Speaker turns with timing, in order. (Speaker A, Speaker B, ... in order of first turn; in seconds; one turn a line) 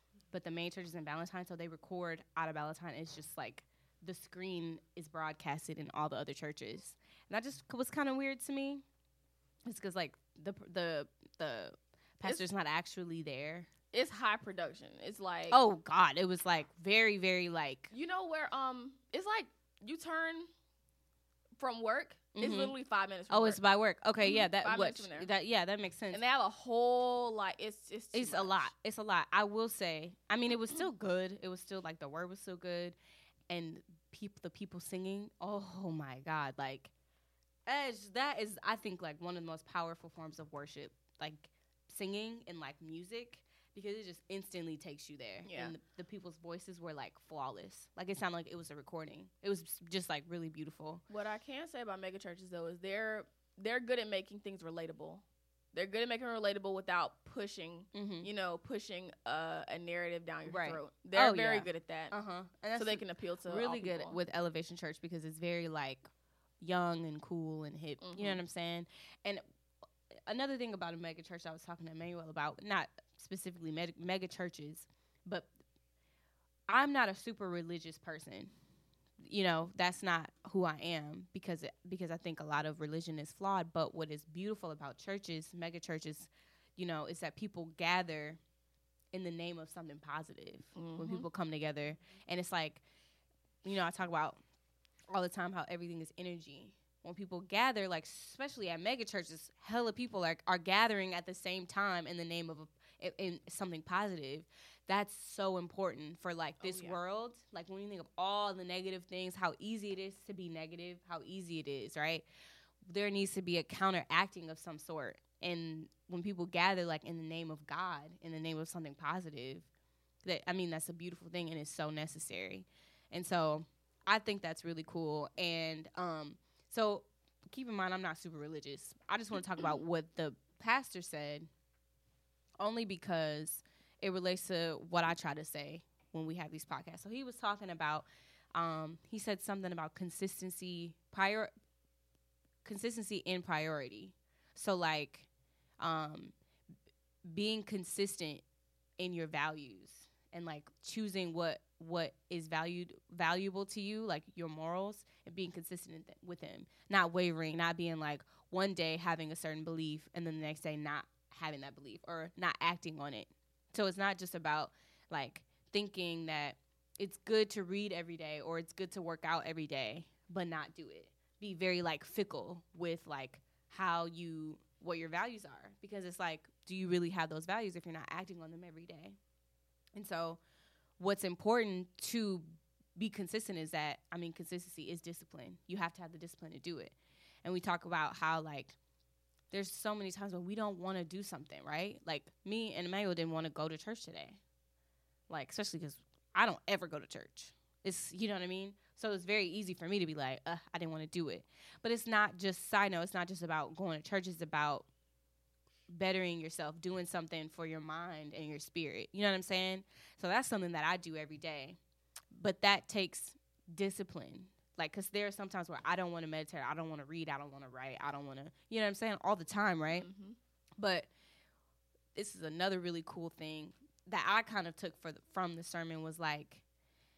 Speaker A: 0.3-8.8
Speaker A: 9.7-13.7
Speaker B: 13.9-15.6
Speaker A: 15.5-17.9
Speaker B: 17.9-20.5
Speaker B: 21.6-23.6
Speaker A: 22.4-22.8
Speaker A: 23.3-26.2
Speaker B: 24.2-25.3
Speaker B: 26.1-28.7
Speaker A: 28.1-33.0
Speaker A: 33.5-36.9
Speaker A: 37.7-51.0
Speaker B: 45.5-45.8
Speaker B: 51.1-62.1
Speaker A: 57.9-58.3
Speaker A: 60.5-66.1
Speaker B: 62.8-64.2
Speaker A: 66.6-69.4
Speaker B: 68.0-68.4
Speaker A: 70.3-75.5
Speaker A: 76.7-78.5
Speaker A: 79.2-88.4
Speaker A: 89.1-92.8
Speaker B: 90.8-91.3
Speaker A: 93.6-94.4
Speaker A: 95.1-112.3
Speaker B: 106.6-107.0
Speaker A: 112.9-119.7
Speaker A: 120.2-131.5
Speaker A: 132.6-141.5
Speaker A: 142.7-145.3
Speaker A: 145.8-146.3
Speaker A: 147.3-148.4
Speaker A: 149.0-179.2
Speaker A: 179.9-180.4
Speaker A: 181.0-188.8
Speaker A: 189.5-194.4
Speaker A: 195.3-204.9
Speaker A: 205.9-211.8
Speaker A: 212.3-220.1
Speaker B: 219.9-220.4
Speaker A: 220.8-221.1
Speaker A: 222.2-226.6